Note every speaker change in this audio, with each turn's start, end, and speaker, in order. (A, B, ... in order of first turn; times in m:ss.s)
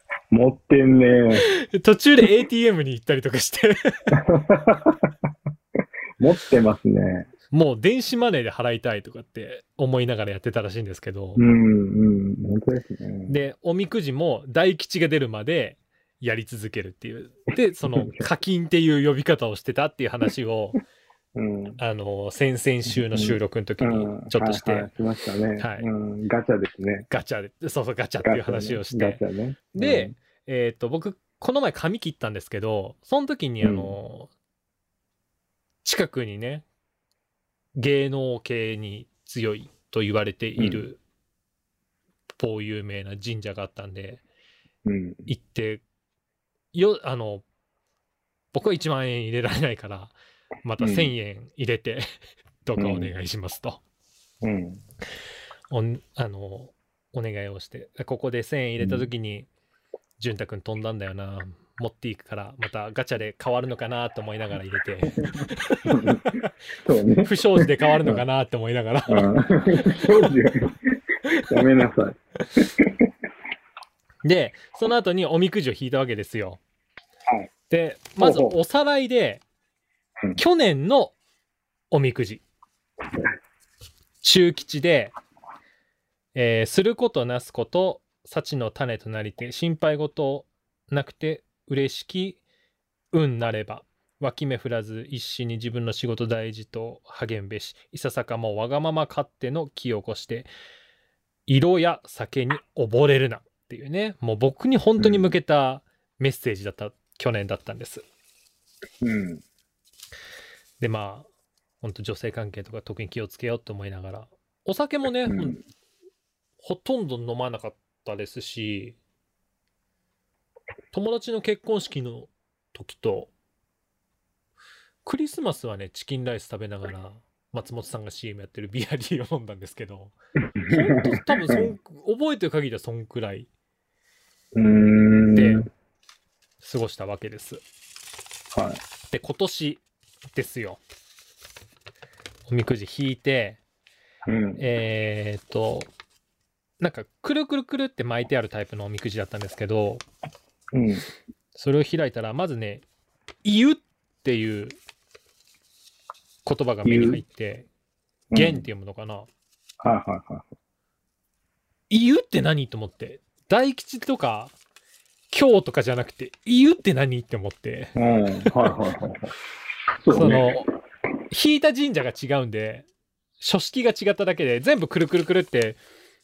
0:00.3-0:01.5 A
0:01.4-0:04.2 B
0:04.1-0:05.1 A
0:06.2-0:07.3 A
0:07.5-0:11.4 B
0:11.4-0:13.4 A
0:13.3-0:20.8 B
0:17.9-0:18.3 A
0:21.4-0:21.8 A
0:21.8-0:24.9 B
0:22.9-0:27.1 A
0:25.6-0:25.9 B
0:27.1-0:29.2 B
0:28.2-0:30.1 A
0:29.7-0:34.3 B
0:33.6-0:34.0 A
0:35.8-0:36.6 B
0:37.8-0:41.0 B
0:40.6-0:40.8 A
0:42.4-0:44.2 B
0:44.8-0:45.3 A
0:45.3-0:45.8 B
0:46.7-0:47.4 B
0:48.5-0:52.0 B
0:50.8-0:51.1 A
0:52.6-0:53.8 B
0:52.8-0:53.1 A
0:54.4-0:54.8 A
0:55.7-0:59.5 B
0:58.8-0:59.1 A
1:00.2-1:06.5 B
1:05.4-1:08.2 A
1:07.2-1:10.3 B
1:09.1-1:13.1 A
1:14.2-1:16.6 B
1:17.7-1:19.4 B
1:18.2-1:18.6 A
1:20.4-1:21.2 B
1:21.9-1:22.4 B
1:24.2-1:25.2 B
1:26.4-1:32.4 B
1:33.1-1:40.5 B
1:41.5-1:48.0 B
1:45.0-1:45.3 A
1:49.0-1:49.4 A
1:50.8-1:51.3 B
1:51.8-1:55.6 B
1:55.3-1:55.6 A
1:56.6-1:59.0 B
2:00.9-2:03.3 B
2:05.0-2:10.2 B
2:10.6-2:11.7 A
2:10.7-2:13.5 B
2:14.6-2:15.7 A
2:15.3-2:15.6 B
2:16.6-2:17.6 B
2:18.5-2:18.8 A
2:19.1-2:19.8 B
2:20.3-2:20.8 B
2:22.5-2:23.6 B
2:24.3-2:24.6 A
2:24.6-2:25.9 B
2:26.8-2:30.0 B
2:30.7-2:31.0 A
2:31.6-2:32.8 B
2:33.4-2:34.8 B
2:36.4-2:37.7 B
2:36.8-2:37.2 A
2:38.3-2:38.7 A
2:38.3-2:39.3 B
2:39.8-2:40.5 A
2:41.9-2:44.6 B
2:45.3-2:48.8 B
2:48.0-2:49.3 A
2:50.0-2:50.6 A
2:50.1-2:50.7 B
2:51.3-2:52.9 B
2:53.4-2:55.8 B